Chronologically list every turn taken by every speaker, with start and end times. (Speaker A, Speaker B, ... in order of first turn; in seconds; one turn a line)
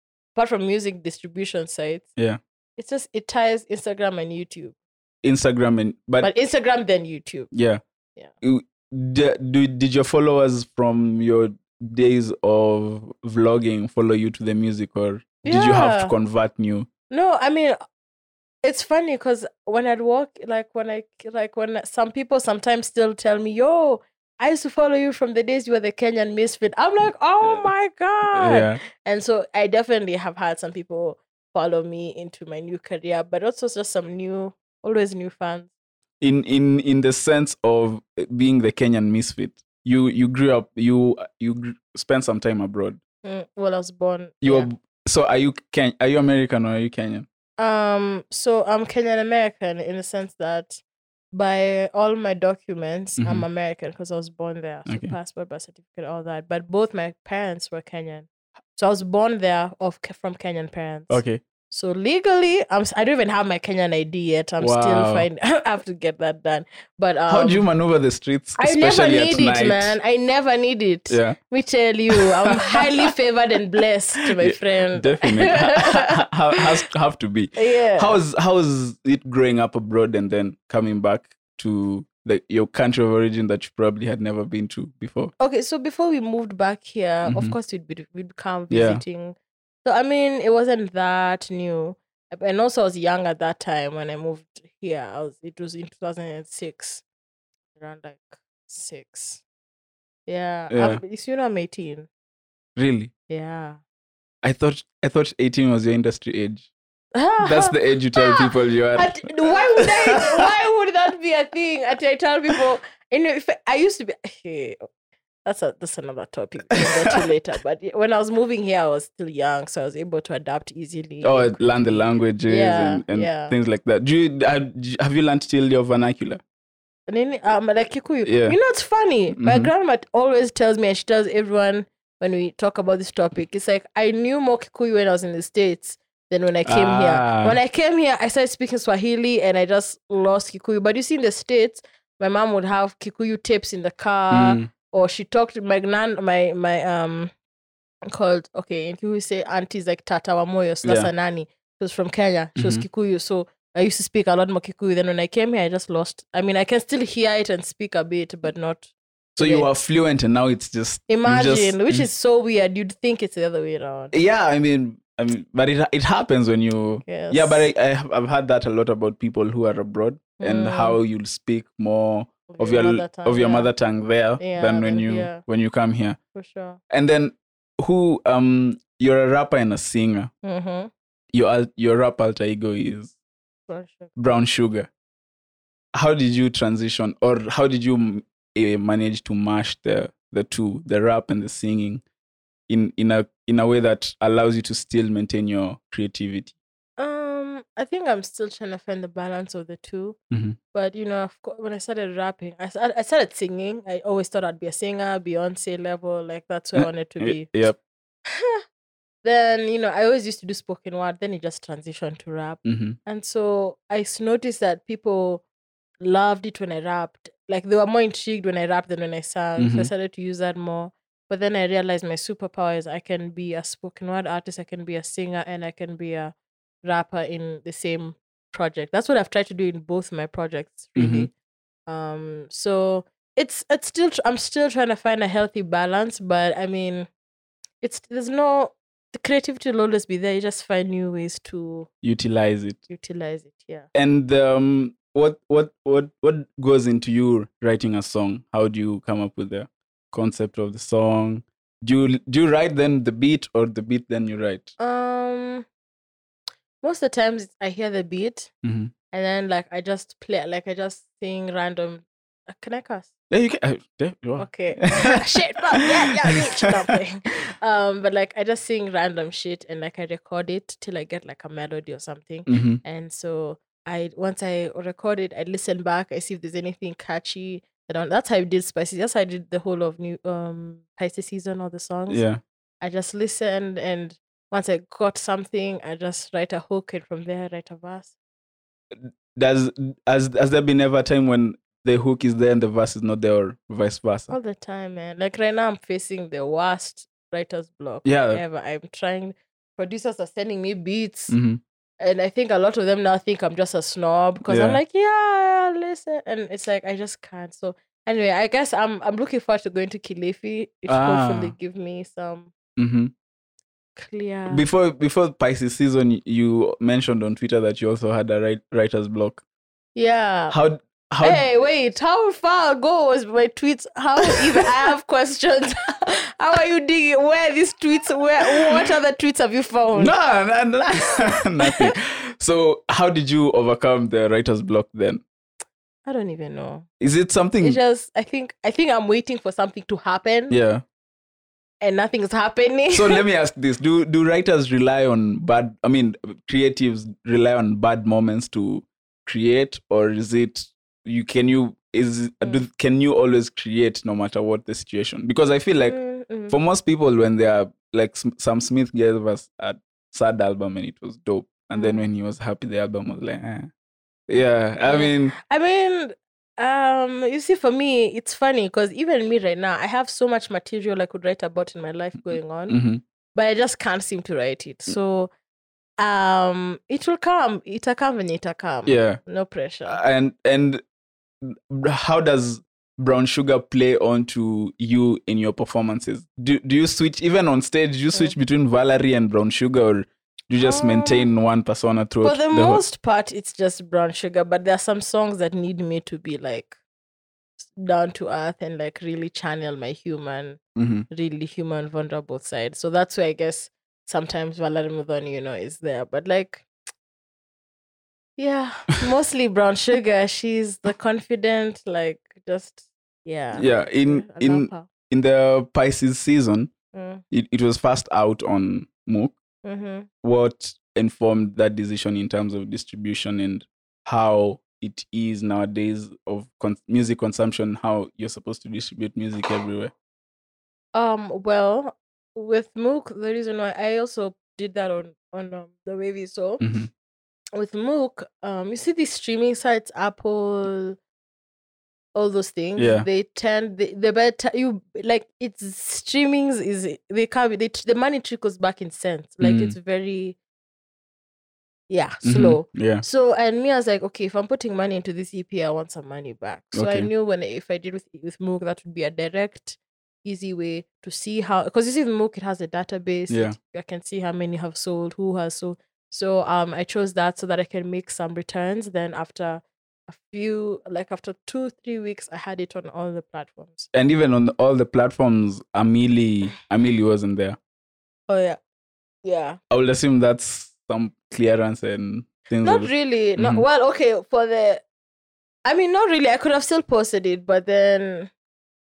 Speaker A: 0.3-2.1
Speaker A: 2.8-4.8
Speaker B: 5.2-6.3
Speaker A: 6.2-7.5
Speaker B: 7.5-7.8
Speaker B: 8.4-16.9
Speaker A: 15.4-16.1
Speaker A: 17.1-17.8
Speaker A: 18.6-35.7
Speaker B: 27.4-27.7
Speaker B: 28.3-28.8
Speaker B: 36.2-43.0
Speaker A: 43.2-44.7
Speaker B: 44.4-47.3
Speaker A: 47.6-67.7
Speaker B: 53.2-53.5
Speaker B: 54.9-55.1
Speaker B: 61.1-61.4
Speaker B: 64.6-65.3
Speaker B: 67.3-70.0
Speaker A: 68.6-76.7
Speaker B: 71.1-71.4
Speaker B: 72.1-73.1
Speaker B: 74.4-85.3
Speaker A: 77.6-78.2
Speaker A: 85.4-97.0
Speaker B: 87.3-87.6
Speaker B: 88.7-89.0
Speaker A: 97.8-99.4
Speaker A: 100.3-102.1
Speaker B: 100.7-101.0
Speaker B: 102.8-103.1
Speaker A: 103.3-103.8
Speaker B: 104.4-106.7
Speaker A: 107.1-114.8
Speaker B: 107.4-110.2
Speaker A: 115.5-123.5
Speaker B: 116.8-117.2
Speaker B: 121.2-126.4
Speaker A: 127.1-147.3
Speaker B: 128.2-128.6
Speaker B: 129.4-129.7
Speaker B: 136.7-137.6
Speaker B: 144.3-144.7
Speaker A: 148.1-159.7
Speaker B: 150.8-151.1
Speaker B: 152.6-152.8
Speaker B: 159.4-162.1
Speaker A: 161.1-164.2
Speaker B: 164.1-176.2
Speaker A: 167.0-167.7
Speaker A: 170.4-171.0
Speaker A: 172.5-173.7
Speaker A: 174.4-175.4
Speaker A: 176.3-176.8
Speaker B: 176.9-180.3
Speaker A: 180.4-180.9
Speaker B: 181.3-183.1
Speaker A: 183.7-184.2
Speaker B: 184.2-184.9
Speaker B: 185.9-192.0
Speaker B: 192.7-196.5
Speaker A: 197.0-200.2
Speaker B: 200.3-200.6
Speaker A: 200.7-207.5
Speaker B: 206.8-207.8
Speaker A: 208.3-208.6
Speaker A: 209.2-215.4
Speaker B: 212.7-213.0
Speaker A: 216.0-231.3
Speaker B: 219.6-219.9
Speaker B: 231.0-231.3
Speaker A: 231.9-237.1
Speaker A: 237.8-241.9
Speaker B: 242.0-242.8
Speaker A: 242.9-243.9
Speaker B: 243.9-254.7
Speaker A: 254.8-255.7
Speaker A: 256.8-258.5
Speaker B: 258.6-258.9
Speaker A: 259.1-263.1
Speaker B: 263.3-265.1
Speaker A: 264.4-282.2
Speaker B: 265.8-266.6
Speaker B: 272.5-272.8
Speaker B: 282.1-282.4
Speaker A: 282.8-288.1
Speaker B: 288.9-294.4
Speaker A: 294.3-301.4
Speaker B: 298.1-298.4
Speaker B: 301.3-301.6
Speaker A: 302.0-312.5
Speaker B: 304.4-304.8
Speaker B: 310.9-311.6
Speaker B: 312.8-313.1
Speaker A: 314.0-314.7
Speaker B: 314.5-319.4
Speaker A: 319.9-320.6
Speaker B: 320.5-321.4
Speaker A: 321.2-330.1
Speaker B: 330.0-335.2
Speaker A: 331.6-331.9
Speaker A: 336.1-336.9
Speaker B: 337.0-337.8
Speaker A: 337.6-340.6
Speaker B: 340.5-340.8
Speaker A: 341.8-343.2
Speaker B: 342.9-356.0
Speaker A: 355.8-356.6
Speaker B: 356.5-363.7
Speaker A: 361.7-362.1
Speaker B: 364.3-365.4
Speaker A: 364.8-372.8
Speaker B: 372.7-373.0
Speaker A: 373.3-375.3
Speaker A: 376.0-380.0
Speaker B: 378.9-379.2
Speaker B: 379.9-380.8
Speaker B: 381.4-392.8
Speaker A: 390.6-391.3
Speaker A: 392.2-396.8
Speaker A: 397.6-406.7
Speaker B: 400.8-401.1
Speaker A: 408.4-414.9
Speaker B: 413.5-416.7
Speaker A: 416.9-417.2
Speaker B: 417.3-419.4
Speaker A: 419.6-420.1
Speaker B: 420.2-429.9
Speaker A: 430.9-436.7
Speaker B: 436.6-436.9
Speaker A: 437.6-441.0
Speaker A: 442.1-450.4
Speaker B: 442.8-443.1
Speaker B: 449.4-449.8
Speaker A: 451.9-473.9
Speaker B: 452.2-453.0
Speaker B: 456.7-457.1
Speaker B: 463.3-463.6
Speaker B: 473.9-477.6
Speaker A: 478.3-478.6
Speaker A: 479.2-479.6
Speaker B: 479.7-483.6
Speaker A: 482.6-484.8
Speaker A: 485.6-488.3